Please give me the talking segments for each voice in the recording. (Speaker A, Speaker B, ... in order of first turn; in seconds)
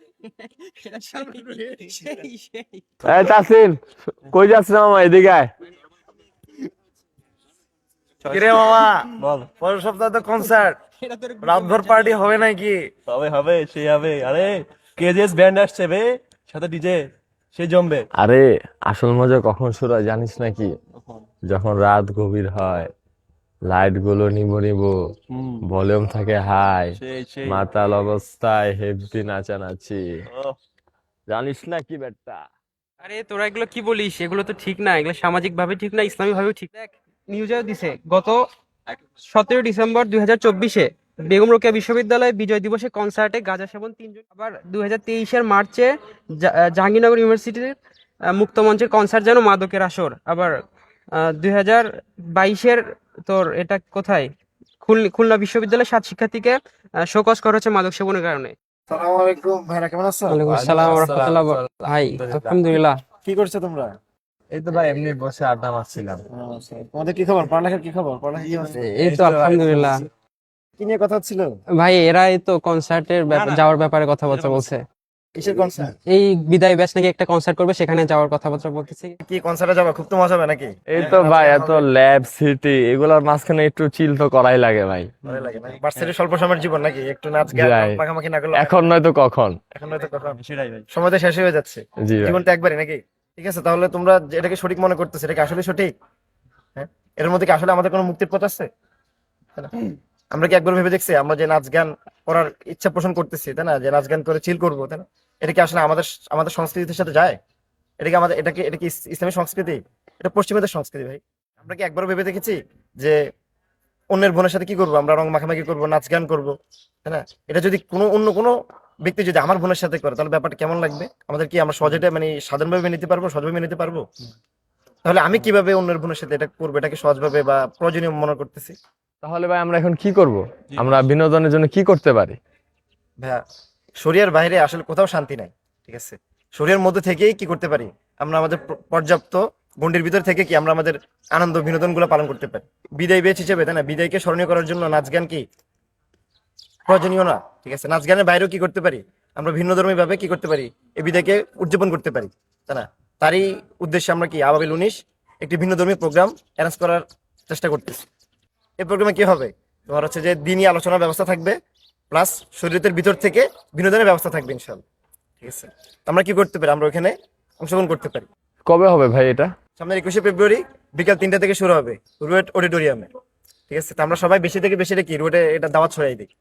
Speaker A: 0.2-2.9, 11.0-12.2, 33.0-38.4, 39.2-50.6, 51.1-54.3, 54.8-58.5, 60.3-63.0, 68.8-70.0, 71.8-74.8, 76.1-79.2
Speaker B: 1.7-2.0, 8.3-10.8, 11.4-12.8, 58.9-60.4, 63.2-63.9, 66.3-70.0, 70.8-71.6, 75.3-76.0, 79.2-81.9, 85.2-88.8, 89.7-90.4, 90.9-95.9, 96.8-98.7, 100.3-107.4, 108.0-113.2, 114.1-124.0, 125.0-128.7, 134.0-145.4, 146.9-158.0, 158.8-161.6, 162.1-164.8, 165.4-168.2, 169.8-173.1, 173.7-176.3
Speaker C: 3.0-5.5, 18.2-20.7, 21.5-22.9, 23.7-24.9, 25.6-30.0, 31.3-32.4, 60.5-62.8, 64.5-66.2, 80.9-85.1, 87.5-88.0, 88.6-89.6, 92.0-92.4, 129.2-132.4, 168.7-169.5
Speaker D: 8.3-9.5, 13.1-17.0, 17.5-18.1, 25.3-25.7, 27.0-27.6, 30.3-30.6, 73.3-73.6, 81.0-81.3, 85.3-86.1, 90.2-90.9